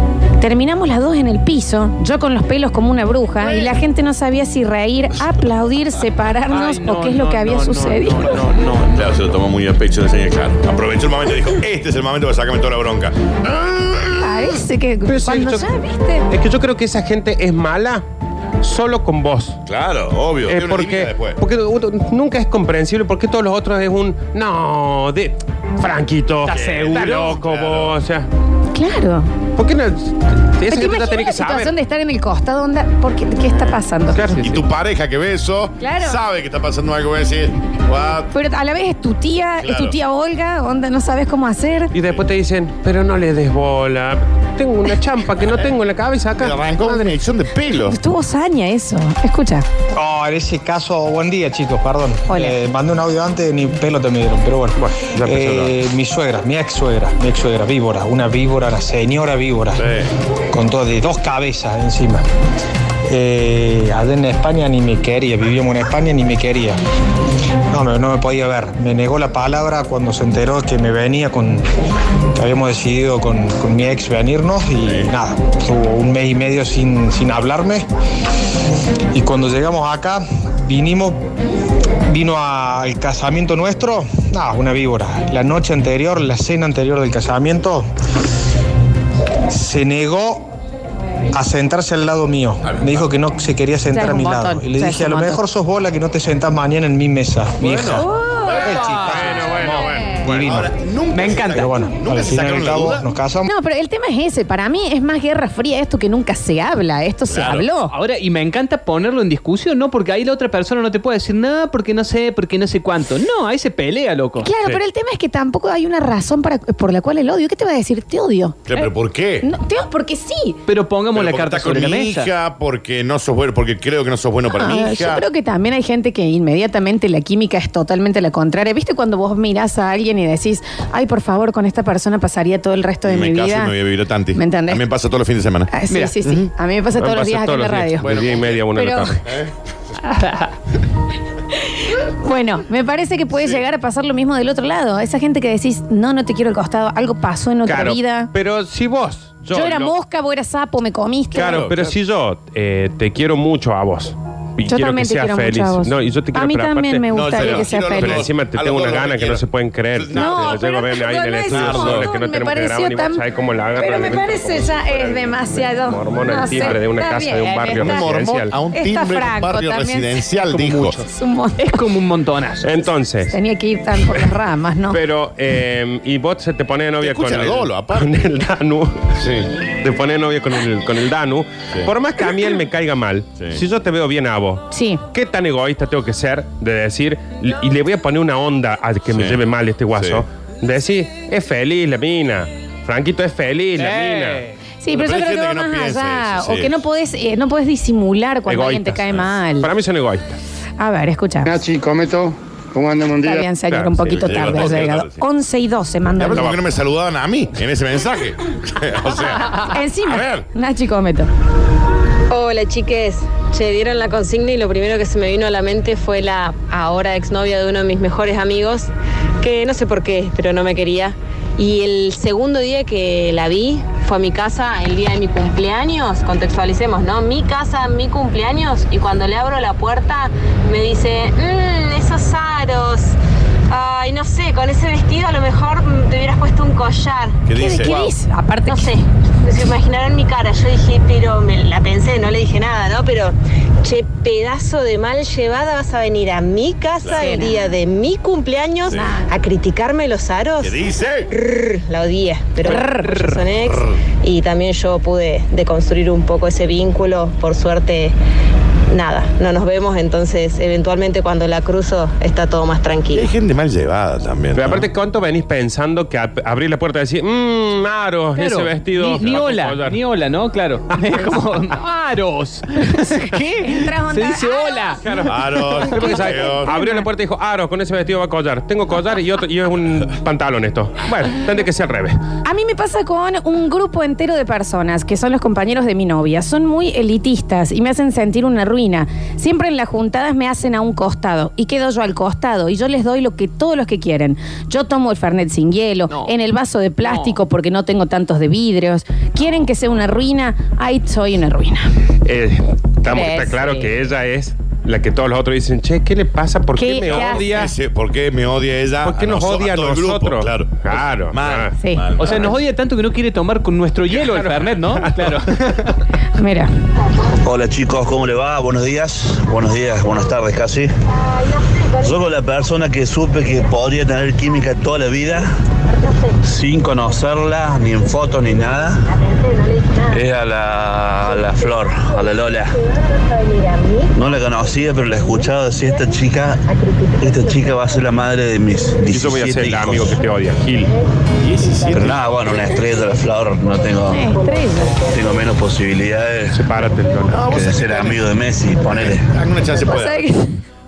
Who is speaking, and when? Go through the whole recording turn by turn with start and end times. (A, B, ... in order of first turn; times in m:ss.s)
0:00.4-0:08.5 A
0:03.4-0:03.7 B
0:06.5-0:09.1 C
0:09.0-0:14.4 B
0:14.2-0:16.3 A
0:15.1-0:15.7 D
0:16.3-0:18.0 D
0:18.6-0:19.6 D
0:19.7-0:21.4 B
0:20.5-0:28.3 D
0:26.5-0:27.4 C
0:26.5-0:28.0 B
0:28.7-0:29.3 A
0:29.6-0:31.7 D
0:30.7-0:34.4 A
0:34.1-0:34.6 D
0:34.4-0:38.3 B
0:35.8-0:36.2 A
0:38.3-0:41.9 A
0:39.6-0:40.0 B
0:41.9-0:47.1 D
0:46.4-0:48.0 B
0:47.8-0:49.7 A
0:50.0-0:59.9 E
0:52.3-0:52.6 A
0:54.8-0:55.7 D
0:59.8-1:00.1 B
1:00.5-1:02.2 E
1:03.1-1:06.8 E
1:07.7-1:11.7 E
1:12.4-1:17.9 E
1:14.8-1:15.1 B
1:19.1-1:21.2 E
1:22.1-1:27.9 E
1:29.5-1:30.5 E
1:31.3-1:38.1 E
1:33.9-1:35.4 A
1:37.6-1:38.0 C
1:38.0-1:38.7 A
1:38.6-1:39.6 C
1:38.6-1:39.5 E
1:39.0-1:40.3 D
1:40.2-1:40.7 E
1:40.3-1:43.0 B
1:41.1-1:41.7 C
1:41.5-1:43.5 E
1:43.4-1:47.9 A
1:47.3-1:47.7 B
1:47.9-1:54.5 C
1:54.4-1:58.9 A
1:58.7-1:59.5 B
1:59.4-2:00.6 A
2:00.7-2:02.3 C
2:01.1-2:05.2 B
2:04.5-2:13.8 A
2:13.0-2:15.7 B
2:14.4-2:14.8 A
2:15.7-2:18.1 A
2:15.9-2:16.2 C
2:17.0-2:19.2 D
2:18.0-2:18.6 B
2:18.8-2:19.2 A
2:19.3-2:19.5 B
2:21.6-2:28.3 A
2:27.7-2:29.9 D
2:29.5-2:31.6 A
2:31.3-2:32.0 B
2:31.3-2:48.5 D
2:34.7-2:38.2 A
2:37.1-2:39.4 B
2:40.0-2:40.6 B
2:40.1-2:43.2 A
2:41.5-2:42.1 B
2:43.8-2:48.1 A
2:47.7-2:51.0 B
2:48.7-2:50.2 A
2:50.5-2:51.0 C
2:51.0-2:51.8 A
2:51.6-2:52.7 C
2:52.6-2:53.4 D
2:53.3-2:55.0 A
2:54.9-2:59.2 D
2:57.0-2:58.1 B
2:59.2-2:59.5 B
2:59.8-3:14.5 D
3:04.7-3:05.0 A
3:09.1-3:09.4 B
3:10.0-3:10.2 B
3:13.8-3:14.5 C
3:14.8-3:19.7 A
3:14.9-3:16.8 B
3:18.5-3:20.4 D
3:20.8-3:21.6 A
3:21.4-3:23.5 F
3:23.2-3:26.5 A
3:23.7-3:24.7 D
3:24.1-3:25.2 B
3:26.2-3:29.6 B
3:29.6-3:31.3 A
3:30.1-3:30.4 B
3:32.3-3:38.9 G
3:39.4-3:53.1 G
3:53.7-3:57.4 G
3:57.5-3:58.0 B
3:57.5-3:58.9 A
3:58.7-4:18.2 G
4:07.0-4:07.3 B
4:07.2-4:07.8 A
4:08.9-4:09.2 A
4:10.6-4:11.3 B
4:12.6-4:13.3 A
4:18.9-4:23.3 G
4:23.1-4:24.9 B
4:24.6-4:30.0 D
4:28.4-4:35.2 C
4:32.9-4:35.0 A
4:35.0-4:42.2 D
4:35.3-4:36.7 B
4:35.7-4:37.0 A
4:42.4-5:01.9 A
4:56.1-4:56.4 C
4:57.0-4:57.4 C
5:02.2-5:07.7 D
5:03.0-5:03.9 A
5:06.8-5:07.7 A
5:07.1-5:12.6 B
5:09.0-5:11.7 D
5:11.8-5:12.0 A
5:12.2-5:16.0 C
5:14.1-5:15.4 D
5:16.4-5:16.7 A
5:17.4-5:20.9 H
5:21.7-5:22.1 G
5:22.0-5:25.5 H
5:26.0-5:26.3 G
5:26.4-5:29.0 H
5:29.1-5:30.2 G
5:30.1-5:32.8 H
5:32.9-5:34.1 G
5:34.1-5:36.6 H
5:36.7-5:37.8 G
5:37.2-5:40.2 H
5:39.1-5:40.9 D
5:41.4-5:42.2 B
5:41.5-5:42.1 G
5:41.9-5:44.3 H
5:44.1-5:45.0 A
5:44.3-5:45.0 G
5:45.0-5:46.6 H
5:46.5-5:47.7 D
5:47.3-5:48.2 B
5:47.4-5:49.3 H
5:48.8-5:50.3 B
5:49.7-5:50.6 A